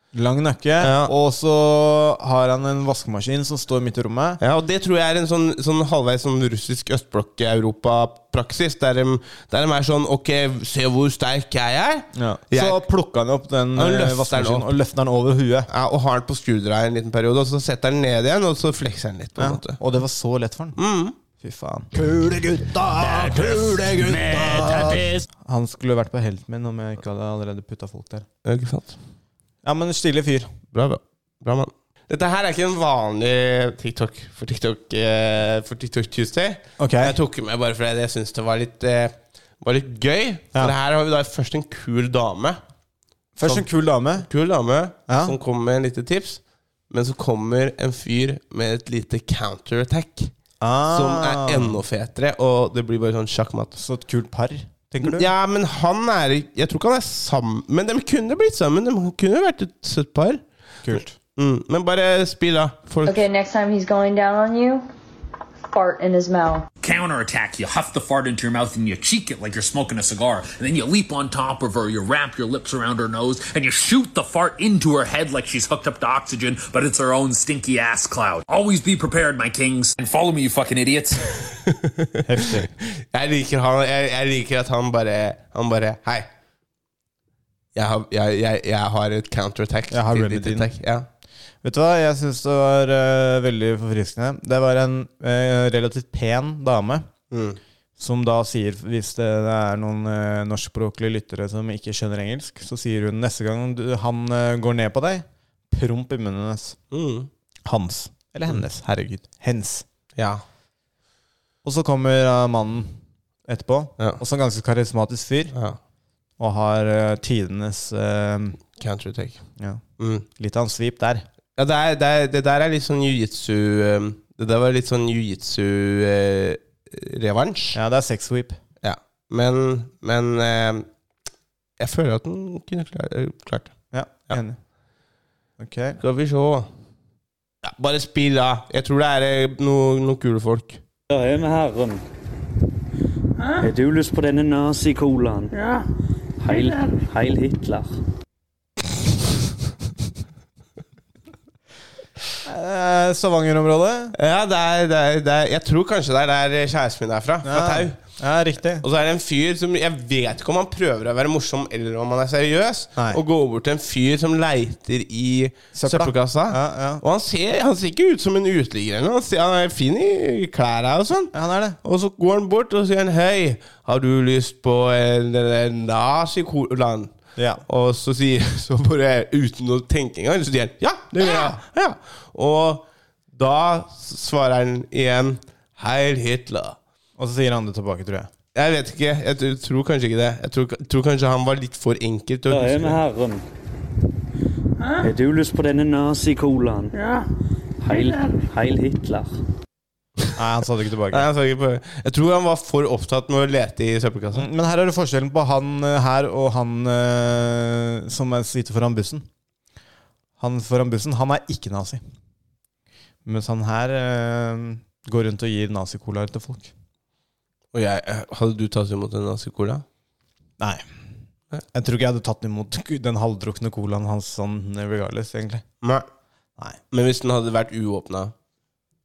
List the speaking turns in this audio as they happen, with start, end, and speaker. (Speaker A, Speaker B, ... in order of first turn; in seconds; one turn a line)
Speaker A: 0.1-4.4
Speaker B: 0.8-1.1
Speaker B: 4.4-12.8
Speaker A: 12.1-15.7
Speaker B: 13.7-14.7
Speaker B: 15.7-19.8
Speaker A: 19.4-20.8
Speaker B: 20.8-21.1
Speaker A: 21.4-28.2
Speaker C: 23.0-25.0
Speaker B: 28.4-29.0
Speaker A: 29.6-30.5
Speaker B: 30.7-42.6
Speaker A: 36.8-37.1
Speaker A: 43.4-44.3
Speaker B: 43.4-50.3
Speaker A: 45.1-45.3
Speaker A: 50.6-51.8
Speaker B: 50.9-53.8
Speaker A: 53.8-55.3
Speaker B: 55.0-63.2
Speaker A: 60.8-61.1
Speaker D: 63.0-64.9
Speaker D: 65.7-66.7
Speaker C: 66.8-81.4
Speaker B: 81.6-86.3
Speaker A: 82.2-82.7
Speaker B: 87.7-91.1
Speaker A: 89.9-90.7
Speaker A: 91.6-97.1
Speaker B: 97.3-97.6
Speaker A: 98.0-106.8
Speaker B: 106.9-107.3
Speaker A: 107.7-109.8
Speaker B: 110.2-110.4
Speaker A: 111.6-113.0
Speaker A: 113.5-115.5
Speaker B: 115.5-115.8
Speaker A: 116.4-118.6
Speaker B: 118.8-119.4
Speaker A: 119.6-121.2
Speaker B: 120.0-120.2
Speaker B: 121.5-127.8
Speaker A: 127.7-128.6
Speaker B: 128.8-130.9
Speaker B: 131.8-133.7
Speaker A: 133.9-134.6
Speaker A: 135.6-136.0
Speaker B: 136.0-136.7
Speaker B: 137.6-140.8
Speaker E: 141.1-142.0
Speaker E: 143.6-145.6
Speaker E: 146.4-147.9
Speaker A: 152.4-154.2
Speaker B: 154.1-158.0
Speaker A: 157.4-158.8
Speaker B: 158.8-177.1
Speaker A: 165.7-167.0
Speaker A: 171.3-171.8
Speaker A: 177.3-177.6
Speaker B: 177.6-186.8
Speaker A: 181.2-181.6
Speaker A: 187.2-188.3
Speaker B: 188.5-193.0
Speaker E: 192.5-193.4
Speaker E: 195.0-197.1
Speaker E: 197.8-199.3
Speaker A: 200.3-201.3
Speaker B: 201.1-204.4
Speaker A: 204.3-209.3
Speaker A: 210.4-212.0
Speaker A: 213.2-216.7
Speaker B: 217.7-219.8
Speaker A: 220.6-220.9
Speaker A: 221.7-225.6
Speaker B: 225.8-226.1
Speaker B: 226.9-228.3